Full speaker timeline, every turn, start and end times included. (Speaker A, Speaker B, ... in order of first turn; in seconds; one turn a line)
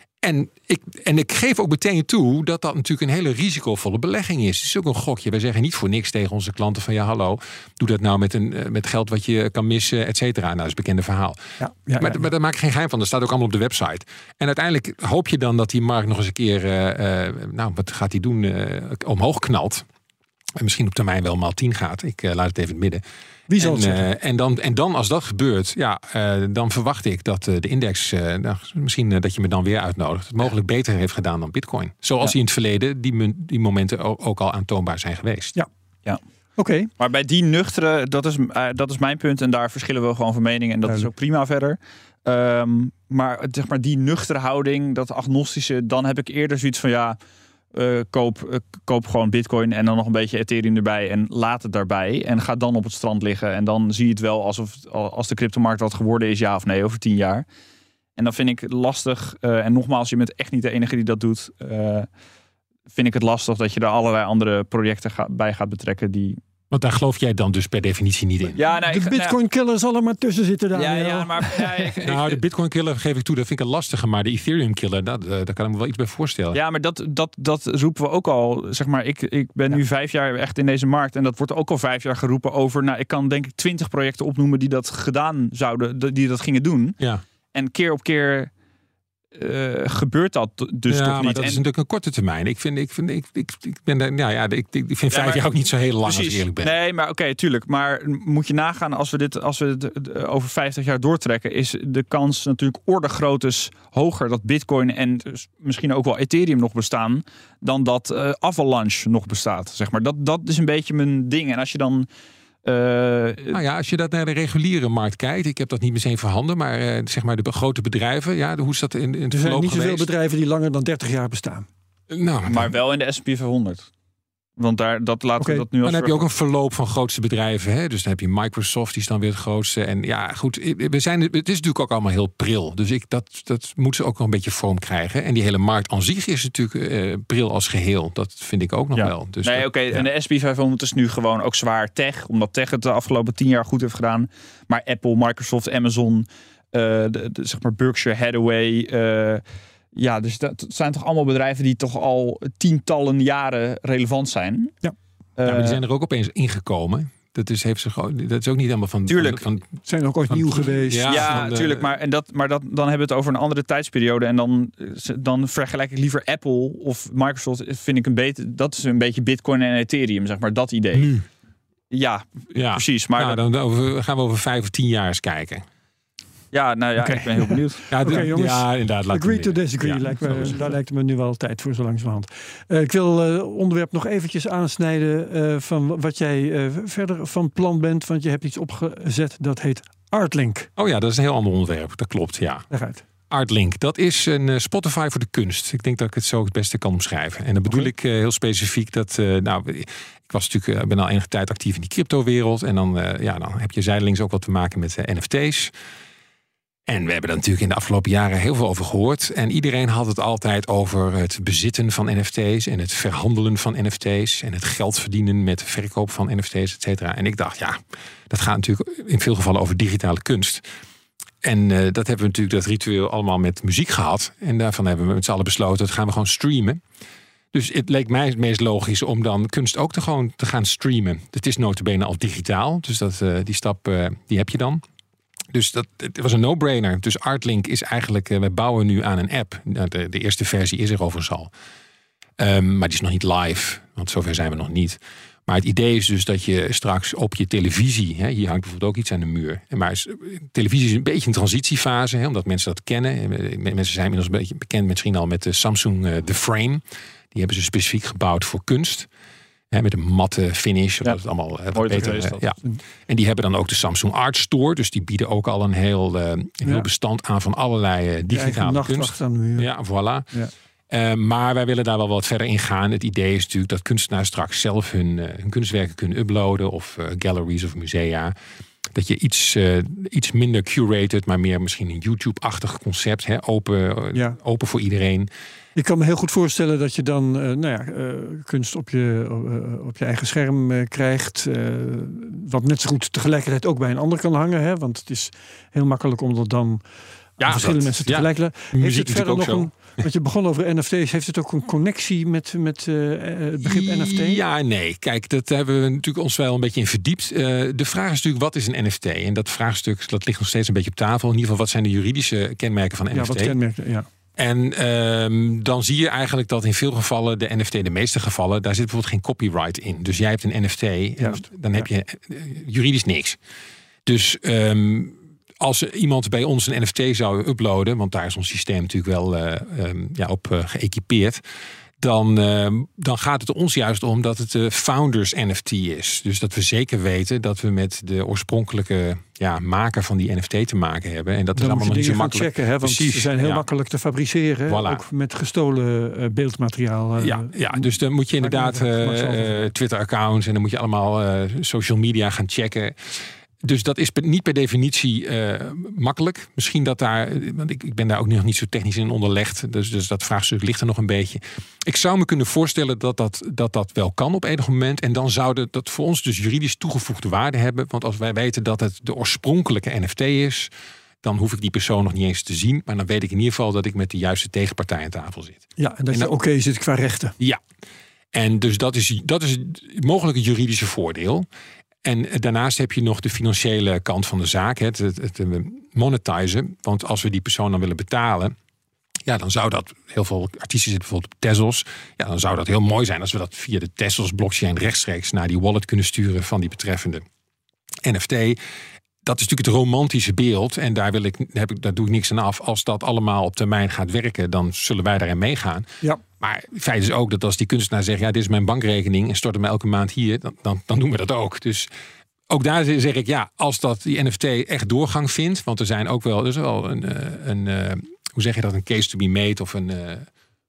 Speaker A: 0.2-11.4
Speaker B: 11.6-12.2
Speaker A: 12.0-19.9
Speaker A: 20.6-23.0
Speaker B: 23.5-24.1
Speaker A: 23.6-35.5
Speaker B: 36.6-36.9
Speaker C: 37.0-47.2
Speaker C: 47.7-57.5
Speaker C: 58.2-62.1
Speaker C: 62.9-66.4
Speaker A: 66.7-68.6
Speaker C: 68.5-69.3
Speaker B: 68.9-71.8
Speaker C: 70.7-72.4
Speaker A: 72.0-76.6
Speaker C: 76.5-87.0
Speaker C: 87.5-88.5
Speaker C: 89.3-91.6
Speaker A: 90.9-96.7
Speaker C: 95.1-95.4
Speaker C: 96.0-112.1
Speaker C: 112.6-113.6
Speaker A: 113.5-120.1
Speaker B: 119.3-121.7
Speaker A: 122.1-122.7
Speaker C: 122.5-123.9
Speaker C: 124.6-126.2
Speaker B: 125.4-125.7
Speaker A: 125.8-140.1
Speaker C: 138.9-149.4
Speaker C: 149.9-154.8
Speaker C: 155.4-155.8
Speaker A: 155.4-159.7
Speaker C: 159.1-159.4
Speaker B: 159.8-161.3
Speaker A: 160.3-161.9
Speaker C: 161.1-171.1
Speaker A: 170.9-171.2
Speaker C: 171.9-173.4
Speaker A: 172.5-175.7
Speaker C: 176.5-178.3
Speaker B: 177.0-190.7
Speaker A: 177.9-180.7
Speaker A: 190.8-192.7
Speaker B: 192.7-193.0
Speaker A: 193.3-205.7
Speaker A: 206.9-220.6
Speaker A: 221.4-226.8
Speaker A: 227.5-234.8
Speaker A: 235.5-241.5
Speaker A: 242.4-259.1
Speaker A: 259.7-270.3
Speaker C: 261.7-262.4
Speaker B: 262.2-262.8
Speaker B: 268.3-269.7
Speaker A: 270.9-278.3
Speaker A: 278.9-285.3
Speaker B: 285.8-296.8
Speaker A: 297.4-300.1
Speaker B: 297.4-304.4
Speaker A: 303.6-313.6
Speaker B: 313.1-314.1
Speaker A: 314.4-323.4
Speaker B: 321.2-321.9
Speaker A: 324.1-331.4
Speaker A: 332.0-343.6
Speaker B: 341.5-349.7
Speaker A: 344.7-345.0
Speaker A: 347.2-370.7
Speaker A: 371.2-376.3
Speaker B: 375.8-377.4
Speaker A: 378.3-381.5
Speaker A: 382.0-388.5
Speaker A: 389.2-397.2
Speaker A: 398.0-398.6
Speaker A: 399.2-405.9
Speaker A: 406.4-411.9
Speaker A: 412.5-420.3